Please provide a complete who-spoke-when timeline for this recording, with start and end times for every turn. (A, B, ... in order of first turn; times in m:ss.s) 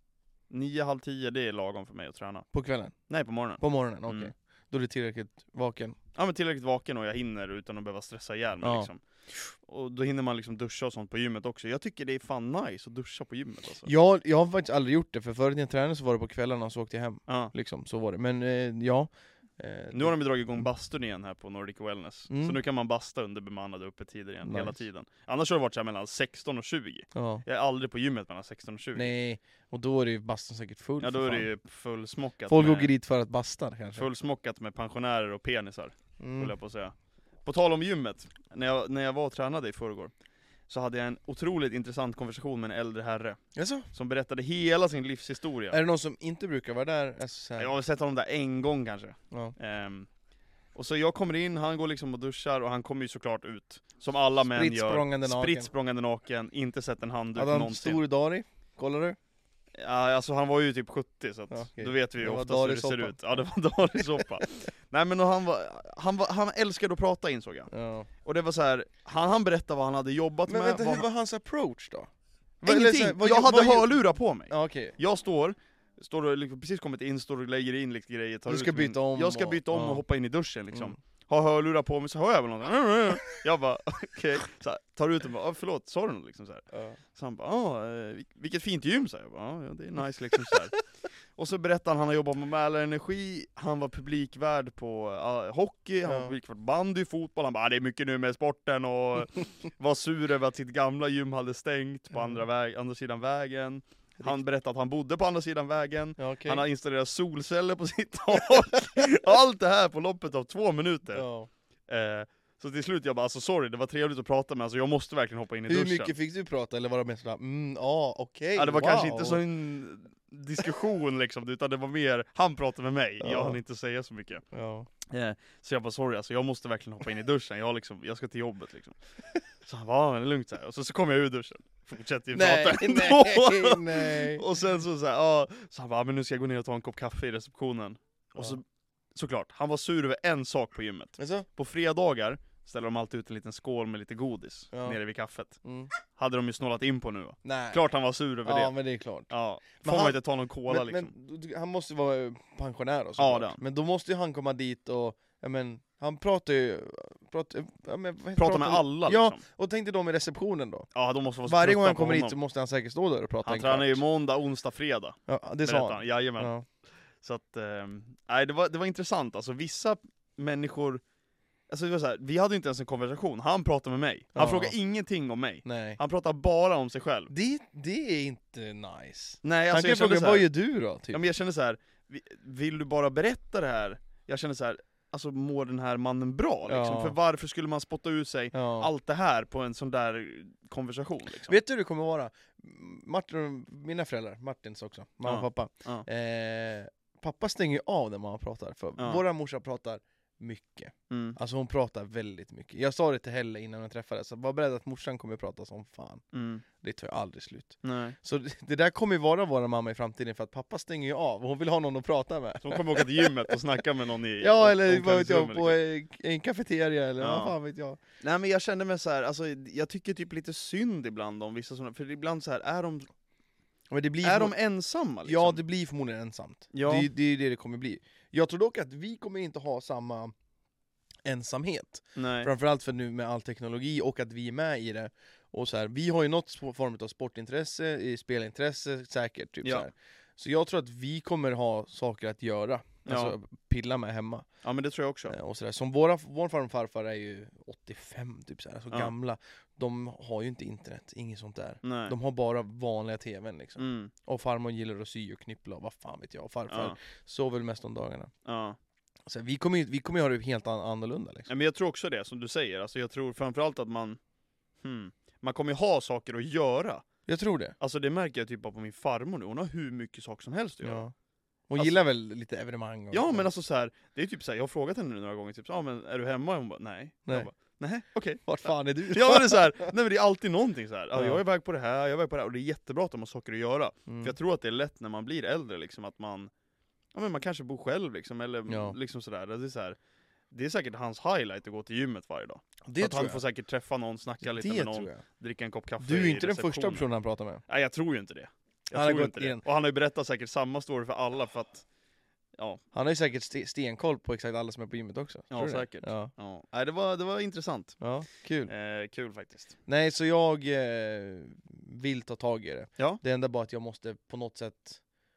0:00.5-0:02.5 A
0:02.5-0:02.9 B
0:03.1-0:04.3 A
0:03.6-0:06.0 B
0:06.1-0:13.9 A
0:08.6-0:08.9 B
0:13.8-0:20.1 B
0:17.3-0:17.5 A
0:19.9-0:29.1 A
0:22.3-0:22.6 B
0:24.4-0:24.8 B
0:27.1-0:27.4 B
0:28.9-0:31.5 B
0:31.0-0:32.9 A
0:32.5-0:34.1 B
0:33.9-0:36.9 A
0:36.2-0:36.5 B
0:37.4-0:40.1 A
0:40.7-0:45.8 A
0:43.5-0:43.9 B
0:45.7-0:47.7 B
0:47.6-0:50.1 A
0:50.7-0:58.0 A
0:54.5-0:55.7 B
0:57.3-0:59.2 B
0:59.8-1:07.7 A
1:01.5-1:03.2 B
1:07.7-1:08.1 B
1:08.2-1:11.0 A
1:10.5-1:12.1 B
1:12.6-1:15.0 B
1:12.6-1:30.8 A
1:18.5-1:20.0 B
1:26.7-1:27.0 B
1:31.3-1:51.2 A
1:36.0-1:36.3 B
1:42.1-1:42.4 B
1:46.2-1:46.6 B
1:51.1-1:51.5 B
1:51.9-1:56.1 A
1:55.7-1:59.4 B
1:58.6-2:04.4 A
2:03.2-2:03.6 B
2:04.5-2:04.9 B
2:05.1-2:09.0 A
2:09.6-2:18.6 A
2:12.3-2:14.4 B
2:19.1-2:25.6 A
2:21.2-2:21.5 B
2:24.7-2:25.0 B
2:25.6-2:25.9 B
2:26.1-2:28.7 A
2:27.4-2:27.8 B
2:28.4-2:29.3 B
2:29.3-2:31.1 A
2:29.8-2:40.9 B
2:33.2-2:33.6 A
2:38.4-2:39.4 A
2:40.9-2:42.4 A
2:41.4-2:44.0 B
2:43.4-2:46.5 A
2:45.3-2:46.6 B
2:47.2-2:51.0 A
2:51.7-2:57.3 A
2:54.3-2:54.8 B
2:55.6-2:56.0 B
2:57.3-3:01.2 B
2:59.4-3:00.5 A
3:01.1-3:11.6 A
3:06.7-3:07.2 B
3:08.5-3:08.9 B
3:11.5-3:26.2 B
3:15.2-3:16.0 A
3:21.1-3:21.4 A
3:26.3-3:26.6 A
3:26.8-3:33.6 B
3:27.8-3:28.2 A
3:32.6-3:35.8 A
3:34.4-3:38.0 B
3:37.2-3:37.5 A
3:38.2-3:43.1 A
3:43.9-3:44.5 B
3:44.2-3:45.6 A
3:45.2-3:50.3 B
3:46.7-3:47.1 A
3:51.2-4:04.4 B
3:52.2-3:52.5 A
4:03.0-4:03.3 A
4:04.6-4:05.3 A
4:05.3-4:18.3 B
4:11.8-4:12.1 A
4:13.8-4:14.1 A
4:16.7-4:17.0 A
4:18.4-4:18.8 A
4:19.3-4:21.5 B
4:21.5-4:24.2 A
4:24.8-4:27.0 A
4:27.3-4:27.8 B
4:27.8-4:31.0 A
4:30.8-4:31.1 B
4:31.7-4:33.5 B
4:33.1-4:46.5 A
4:38.4-4:39.9 B
4:41.1-4:41.4 B
4:44.1-4:44.3 B
4:47.1-4:50.0 A
4:48.7-4:49.0 B
4:50.5-4:57.0 A
4:52.8-4:53.4 B
4:54.4-4:55.2 B
4:56.0-4:57.6 B
4:57.7-5:01.8 A
4:58.9-4:59.6 B
5:02.9-5:06.3 B
5:05.5-5:08.0 A
5:08.0-5:08.7 B
5:08.7-5:09.7 A
5:09.8-5:15.0 B